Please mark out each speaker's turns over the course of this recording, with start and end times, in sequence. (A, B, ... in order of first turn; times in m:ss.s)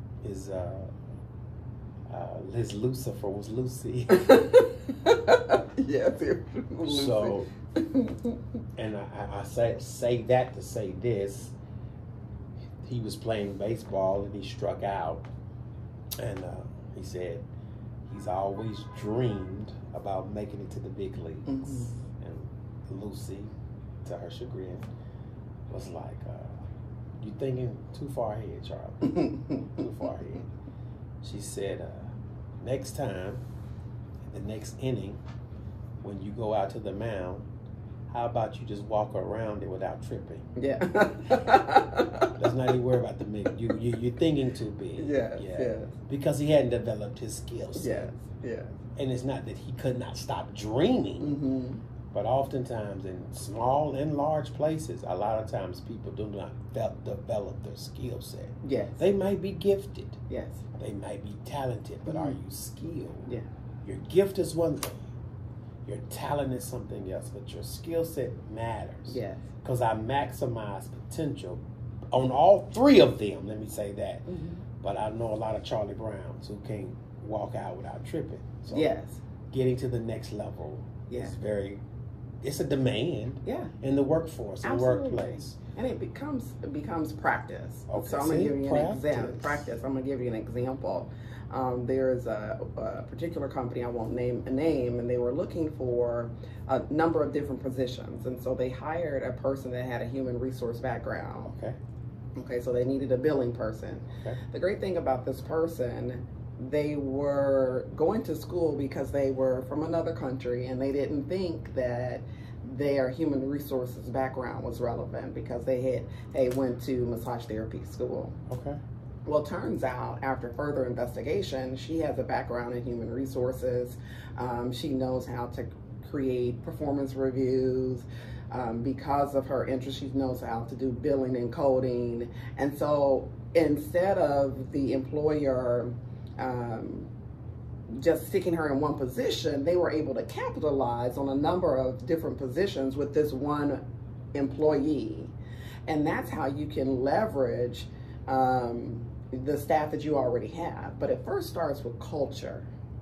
0:00.2-0:00.9 A
0:02.1-0:04.4 A
0:04.1-0:08.4 B
0:06.8-0:07.5 A
0:08.8-0:11.5 A
0:12.8-0:15.3 A
0:16.2-0:17.4 A
0:18.1-0:23.5 A
0:21.5-0:21.9 B
0:24.0-0:24.9 A
0:25.7-0:26.6 A
0:27.2-0:30.5 A
0:29.1-0:29.6 B
0:31.2-0:33.4 A
0:34.2-0:35.2 A
0:36.0-0:37.4 A
0:38.1-0:40.5 A
0:40.6-0:42.3 B
0:42.4-0:48.1 A
0:45.0-0:45.9 B
0:47.8-0:48.8 B
0:49.0-0:51.4 A
0:51.2-0:51.8 B
0:52.1-1:00.2 A
0:58.6-0:59.0 B
1:00.3-1:00.6 B
1:00.7-1:03.3 A
1:02.0-1:02.4 B
1:03.8-1:05.1 A
1:05.8-1:14.2 A
1:09.1-1:09.4 B
1:14.2-1:14.6 B
1:14.8-1:18.9 A
1:18.7-1:19.2 B
1:19.5-1:21.8 A
1:22.4-1:25.6 A
1:23.4-1:23.7 B
1:24.6-1:41.5 B
1:27.9-1:29.6 A
1:41.4-1:41.8 A
1:42.4-1:58.4 B
1:58.5-1:58.8 A
1:59.2-2:17.1 B
2:17.9-2:23.8 B
2:24.3-2:25.3 B
2:25.9-2:32.7 B